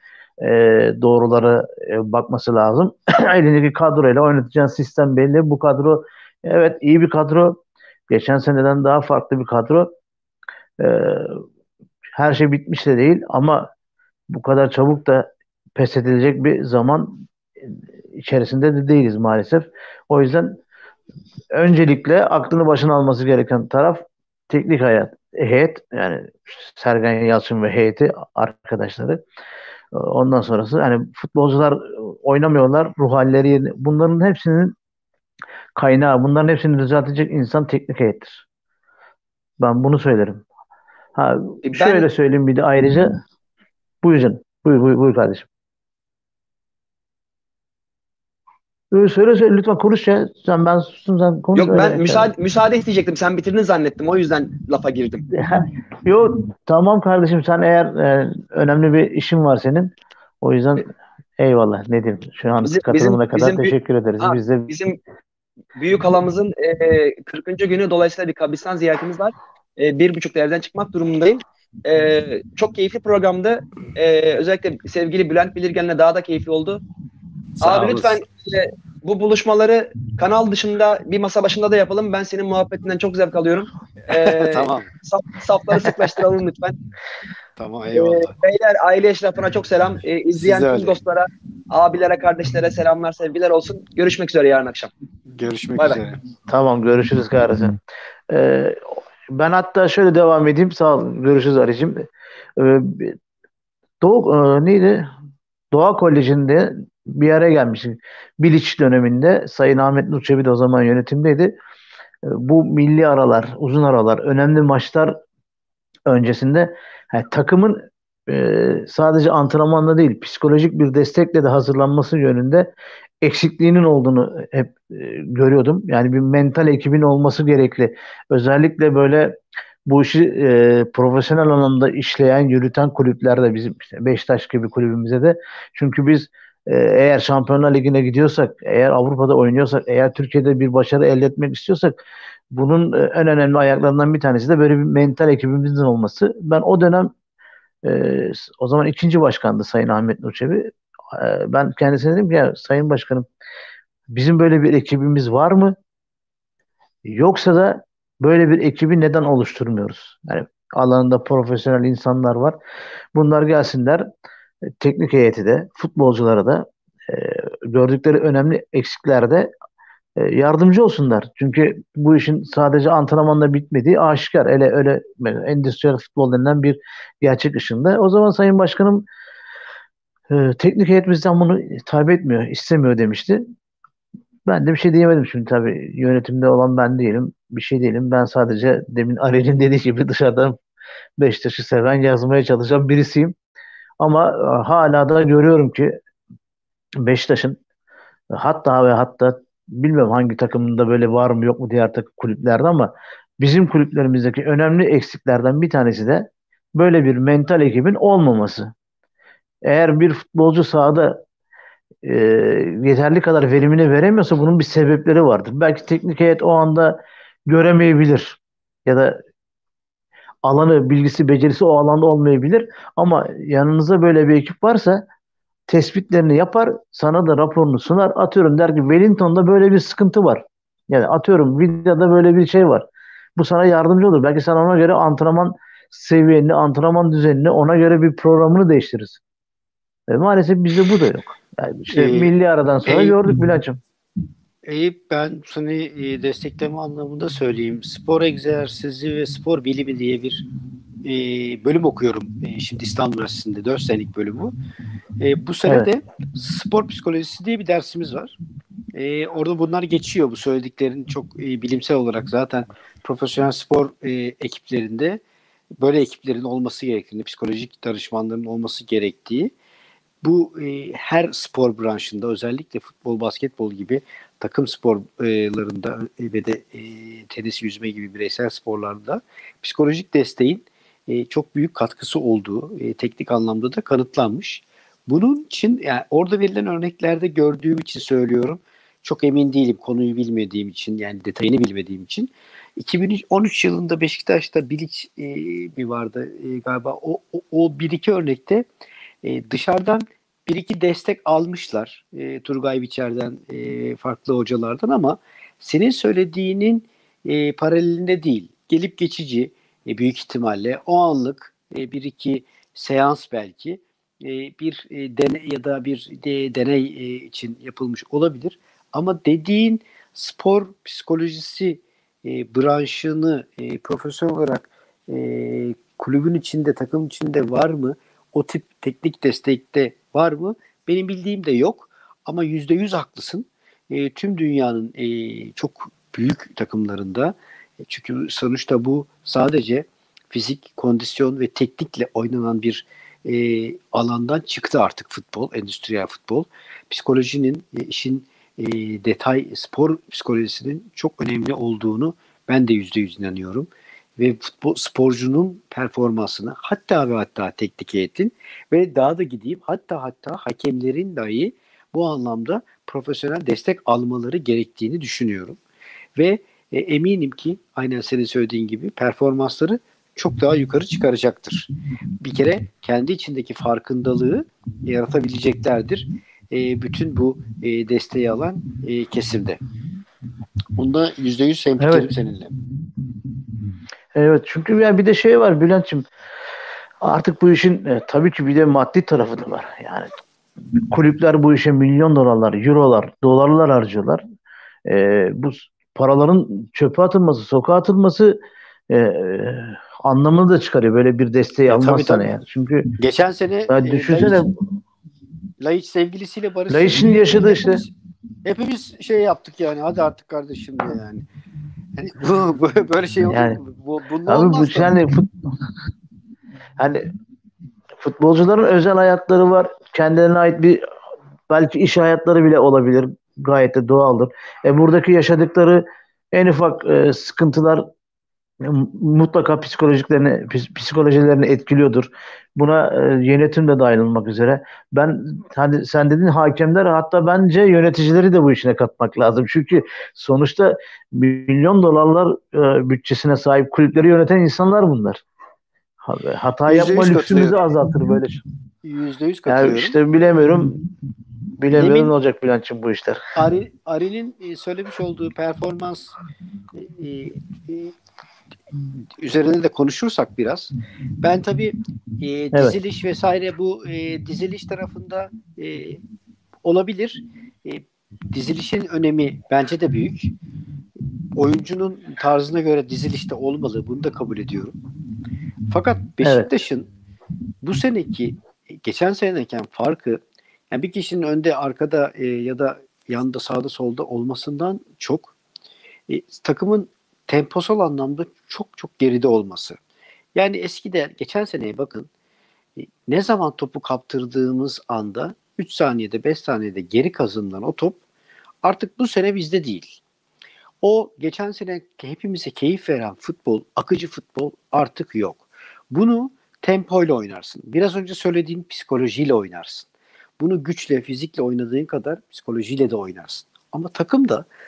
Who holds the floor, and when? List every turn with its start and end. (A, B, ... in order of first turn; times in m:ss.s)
0:00.4-0:07.6 A
0:08.1-0:09.9 A
0:10.8-0:11.4 A
0:12.2-0:13.7 A
0:14.3-0:20.6 A
0:21.5-0:29.2 A
0:29.9-0:34.8 A
0:35.8-0:38.4 A
0:39.6-0:40.4 A
0:41.2-0:43.2 A
0:41.6-0:42.1 B
0:44.0-0:45.5 A
0:48.9-0:52.3 A
0:51.6-0:55.2 B
0:55.3-1:04.7 A
1:02.6-1:05.0 B
1:05.8-1:16.8 B
1:17.6-1:18.2 C
1:17.6-1:26.8 B
1:24.2-1:24.9 C
1:27.6-1:28.3 C
1:27.9-1:34.9 B
1:30.4-1:31.0 C
1:35.3-1:36.2 C
1:36.5-1:37.8 A
1:38.3-1:43.2 A
1:44.0-1:45.1 A
1:45.7-1:51.5 A
1:52.2-1:55.2 A
1:56.1-2:02.7 A
2:03.2-2:22.0 A
2:22.5-2:27.1 A
2:27.8-2:33.3 A
2:34.1-2:35.8 A
2:37.1-2:42.6 A
2:43.2-2:44.1 A
2:44.8-2:49.5 A
2:50.2-2:59.1 A
3:00.3-3:03.6 A
3:04.5-3:10.6 A
3:11.2-3:13.4 A
3:14.0-3:16.0 A
3:17.0-3:17.6 A
3:18.3-3:28.7 A
3:29.6-3:31.2 A
3:32.0-3:39.2 A
3:40.4-3:45.0 A
3:45.7-3:59.2 A
4:00.1-4:03.8 A
4:01.9-4:02.3 C
4:02.8-4:03.2 C
4:04.6-4:10.5 C
4:11.0-4:14.5 C
4:15.2-4:18.4 C
4:18.9-4:25.2 C
4:25.8-4:29.5 C
4:30.2-4:58.7 C
4:59.2-6:05.6 C
6:06.2-6:11.7 C
6:12.2-6:19.6 C
6:20.8-6:22.6 C
6:21.8-6:22.1 A
6:24.2-6:26.0 A
6:27.0-6:30.1 A
6:30.9-6:34.2 A
6:34.9-6:42.9 A
6:41.6-6:42.4 C
6:43.0-6:44.5 C
6:43.7-6:44.6 A
6:45.6-6:47.9 C
6:46.7-6:47.8 A
6:48.4-6:51.2 C
6:52.0-6:55.0 C
6:53.2-6:53.6 A
6:54.3-6:55.4 A
6:56.8-6:57.0 A
6:58.0-7:00.8 A
7:01.5-7:07.9 A
7:08.6-7:25.2 A
7:26.0-7:28.4 A
7:26.7-7:27.6 C
7:28.8-7:30.0 C
7:29.5-7:30.8 A
7:31.6-7:33.2 A
7:31.7-7:32.1 C
7:33.4-7:36.2 C
7:36.7-7:37.9 C
7:39.2-7:46.0 C
7:46.6-7:50.3 C
7:51.4-7:54.8 C
7:55.7-7:56.9 C
7:56.2-7:56.5 A
7:57.6-8:05.4 C
8:06.1-8:09.8 C
8:10.4-8:12.1 C
8:12.8-8:18.0 C
8:18.6-8:20.0 C
8:20.8-8:29.9 C
8:30.4-8:34.5 C